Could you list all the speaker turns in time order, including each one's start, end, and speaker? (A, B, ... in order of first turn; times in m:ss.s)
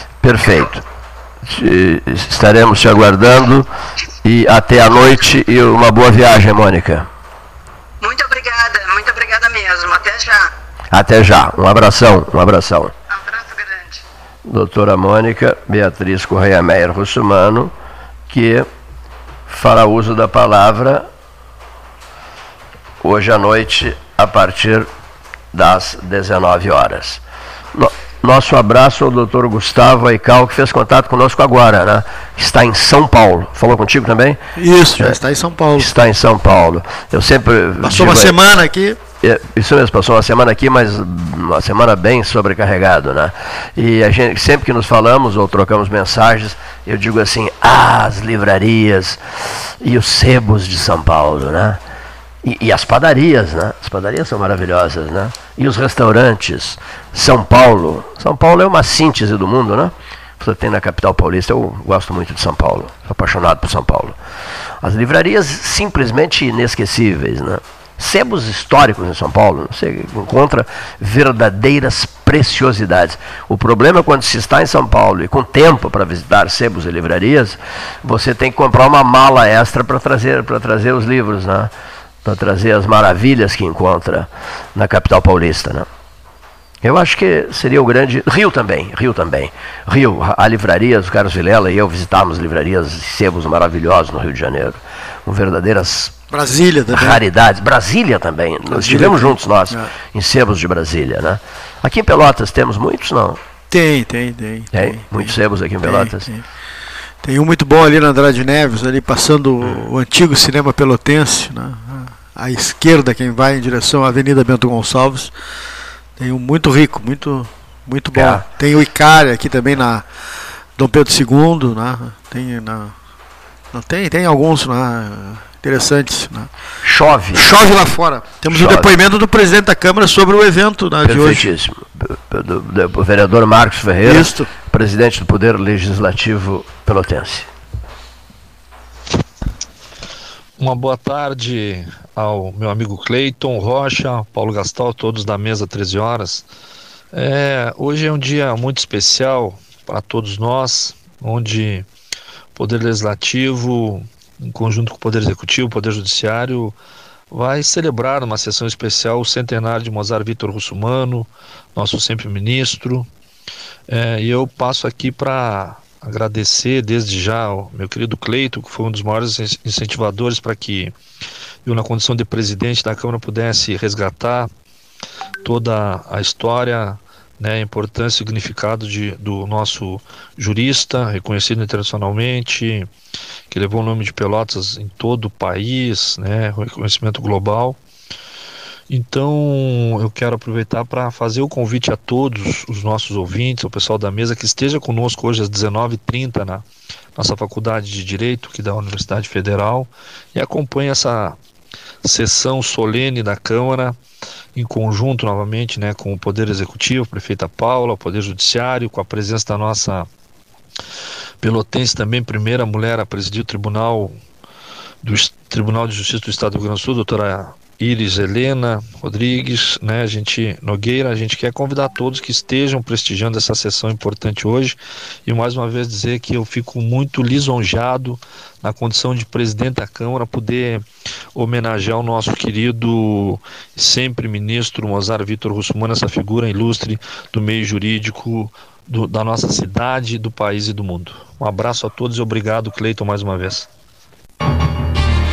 0:00.2-0:00.8 A
0:01.4-0:03.7 A
0:04.2-0:07.1 A
0:08.0-0:10.5 B
0:10.9-0:12.9 A
0:13.1-0:14.0 B
0:14.4-0:17.7 A
0:18.3-0:18.7 A
0:19.5-0:21.1 A
0:23.0-0:24.9 A
0:25.5-0:27.2 A
0:27.7-0:34.4 A
0:34.6-0:35.9 C
0:35.8-0:38.4 A
0:37.8-0:39.0 C
0:39.2-0:49.2 A
0:49.8-0:51.8 A
0:52.4-1:04.2 A
1:04.8-1:21.7 A
1:22.2-1:25.9 A
1:26.8-1:36.2 A
1:36.3-1:37.2 C
1:36.9-1:43.4 A
1:38.7-1:39.9 C
1:43.7-1:46.4 C
1:44.7-1:46.3 A
1:47.2-1:55.3 C
1:56.2-2:00.0 C
1:58.1-1:58.4 A
2:00.8-2:03.0 C
2:03.7-2:06.5 C
2:06.8-2:07.5 A
2:07.3-2:11.5 C
2:08.5-2:09.0 A
2:11.0-2:17.5 A
2:14.0-2:14.5 C
2:20.6-2:26.5 D
2:27.1-2:31.9 D
2:32.6-2:36.8 D
2:37.3-2:43.1 D
2:43.9-2:50.9 D
2:51.7-2:54.5 D
2:55.4-3:02.9 D
3:03.5-3:07.8 D
3:08.9-3:16.7 D
3:17.2-3:21.4 D
3:22.0-3:24.0 D
3:24.6-3:30.1 D
3:31.4-3:34.2 D
3:35.0-3:50.8 D
3:51.4-4:03.7 D